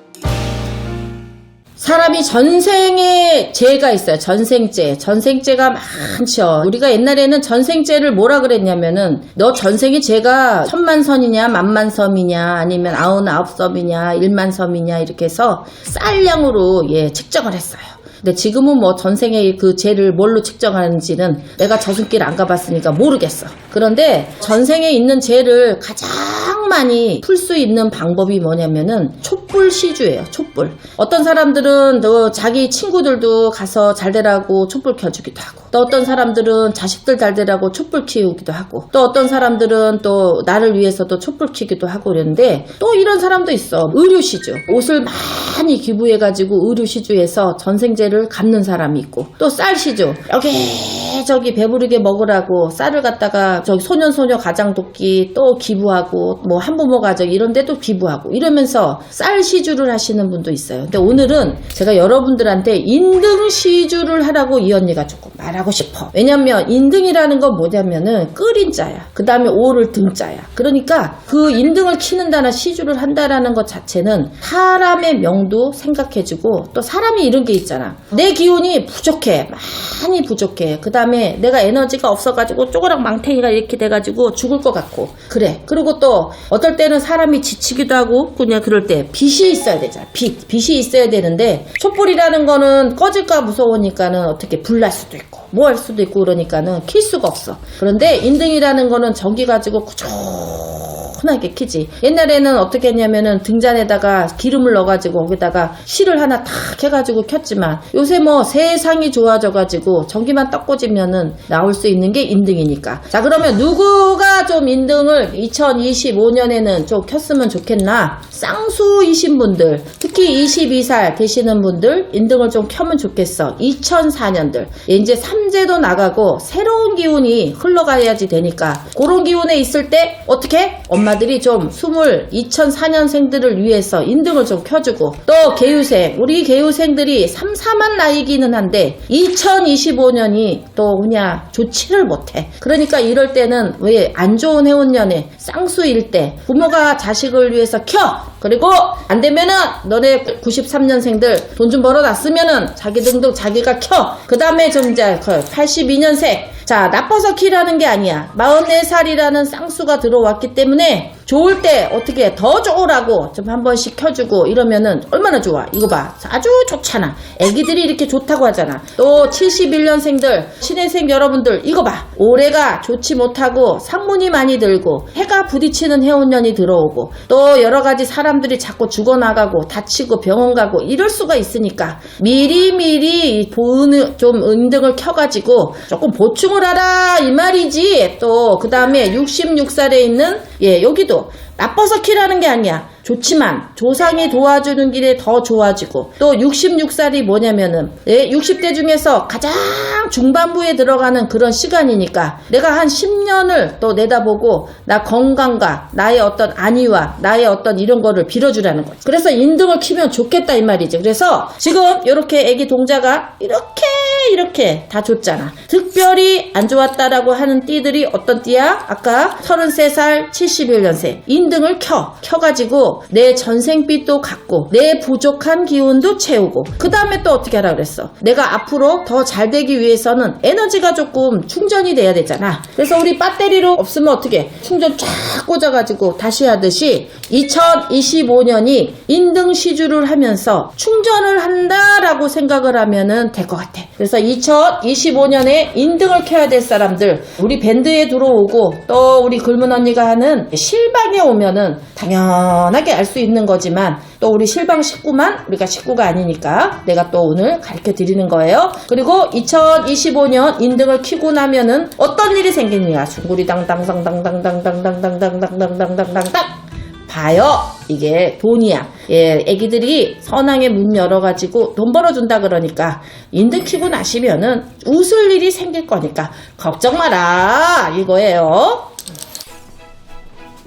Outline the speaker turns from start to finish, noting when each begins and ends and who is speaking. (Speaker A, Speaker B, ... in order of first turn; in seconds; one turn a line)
Speaker A: 1.8-278.9